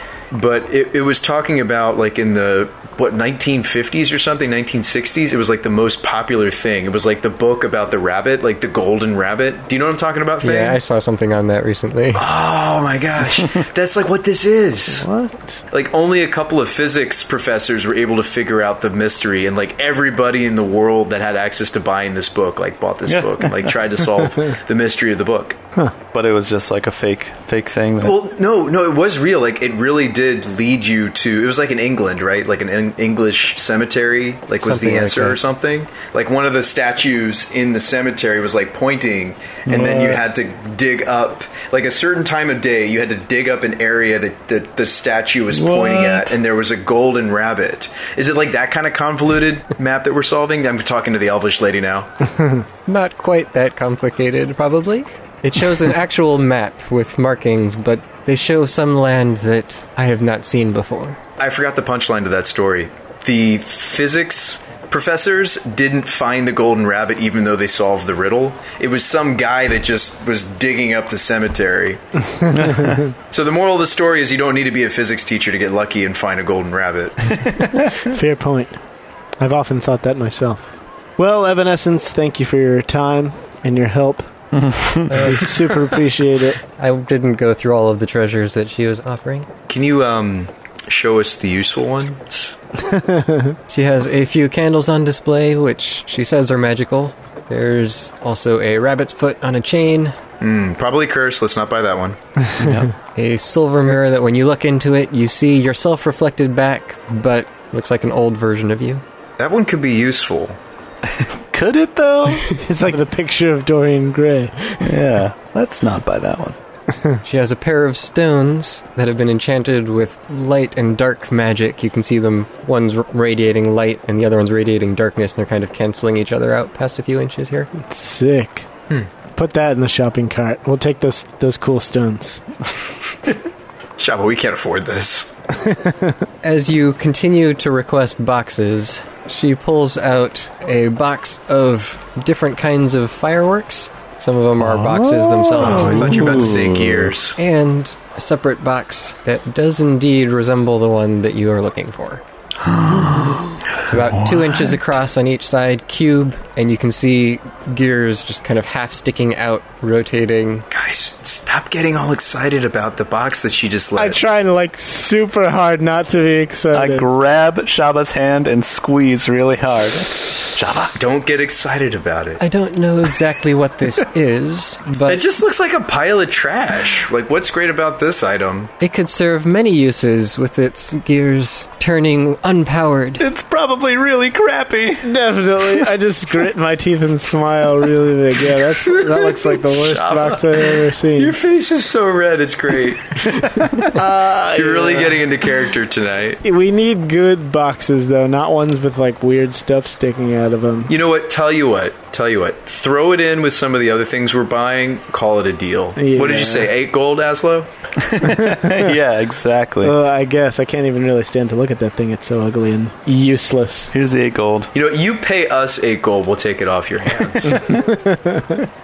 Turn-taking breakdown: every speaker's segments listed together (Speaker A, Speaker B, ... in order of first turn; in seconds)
Speaker A: 0.3-10.8, 12.2-15.1, 15.7-25.6, 28.0-52.1, 61.4-72.0, 73.3-77.4, 89.7-92.5, 100.4-102.2, 109.4-110.6, 134.0-135.3, 145.6-147.4, 160.7-164.2, 171.0-172.4, 175.1-178.7, 188.7-196.4, 200.9-207.7, 214.7-217.7
Speaker B: 10.4-12.2, 34.6-35.4, 52.9-61.2, 85.1-85.6, 86.8-89.5, 93.7-100.2, 103.2-109.0, 117.2-127.7, 136.4-146.2, 147.4-152.2, 153.8-160.7, 172.4-175.2, 178.8-183.2
Speaker C: 14.9-15.7, 52.4-52.6, 72.3-73.1, 78.0-78.8, 79.4-84.3, 85.1-86.6, 92.8-93.6, 112.5-114.6, 127.7-128.7, 129.4-132.4, 135.5-136.2, 145.5-146.1, 164.0-167.1, 185.0-191.4, 193.9-195.3, 196.4-200.9, 206.0-206.7, 208.2-209.0, 209.8-213.9, 217.5-218.7
Speaker D: 23.1-23.7, 26.1-28.2, 39.7-40.2, 45.5-46.4, 72.5-73.0, 77.3-77.9, 84.5-85.4, 102.6-102.9, 111.0-112.6, 114.8-116.6, 144.6-147.1, 152.6-154.8, 166.7-171.0, 183.2-185.1, 208.0-210.0, 213.9-214.7